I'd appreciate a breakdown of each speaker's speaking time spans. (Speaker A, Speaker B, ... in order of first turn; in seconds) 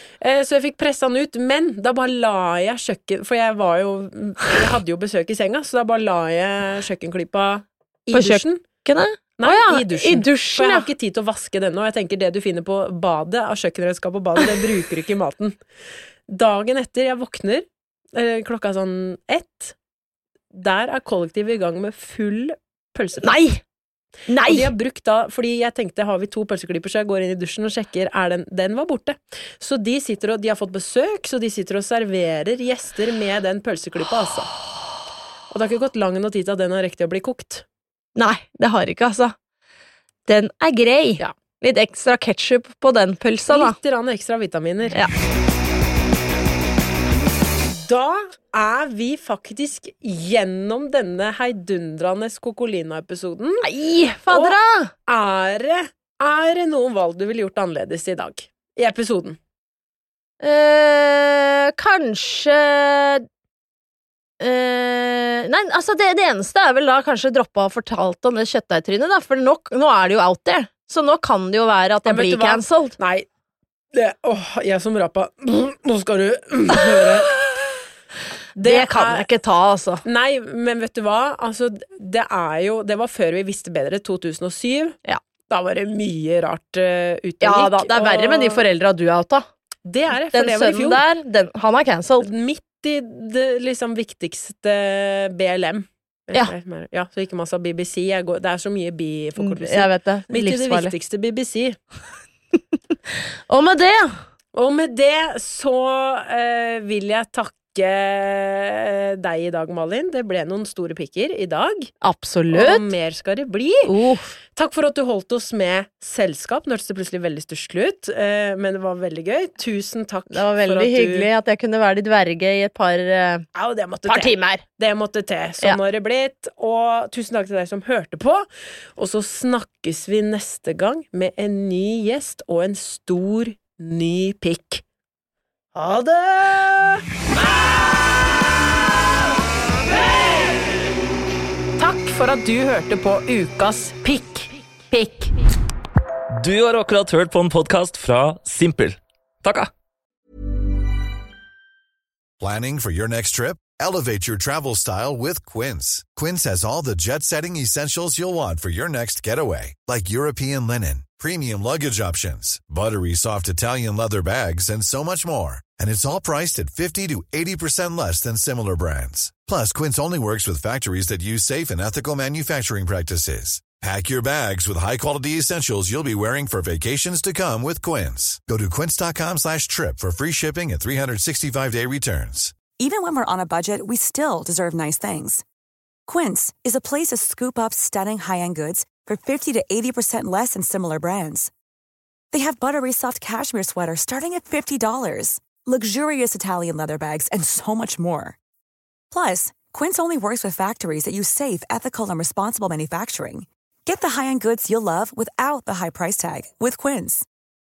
Speaker A: 0.2-8.6, 9.4-15.6, 16.3-19.7, 20.5-23.4, 24.5-34.5, 35.5-37.6, 43.5-45.0, 47.7-53.7, 54.3-59.4, 72.0-73.3, 73.9-77.4, 78.5-79.3, 80.0-85.0, 85.5-88.6, 89.8-91.0, 92.2-101.8, 104.5-111.9, 112.5-113.9, 114.5-121.3, 123.5-134.8, 135.7-137.1, 139.9-140.5, 141.8-145.3
Speaker B: 8.1-10.9, 23.2-23.6, 24.3-24.7, 38.1-39.3, 40.3-43.8, 53.6-54.9, 60.4-63.2, 64.4-73.0, 78.6-80.0, 87.4-89.5, 90.3-92.3, 99.4-100.9, 103.1-104.1, 112.0-112.9, 113.9-114.3, 120.3-123.5, 124.0-124.6
Speaker C: 146.4-149.7
Speaker D: 152.4-182.6
Speaker E: 182.7-185.4, 186.1-191.5, 192.3-198.4, 199.1-207.3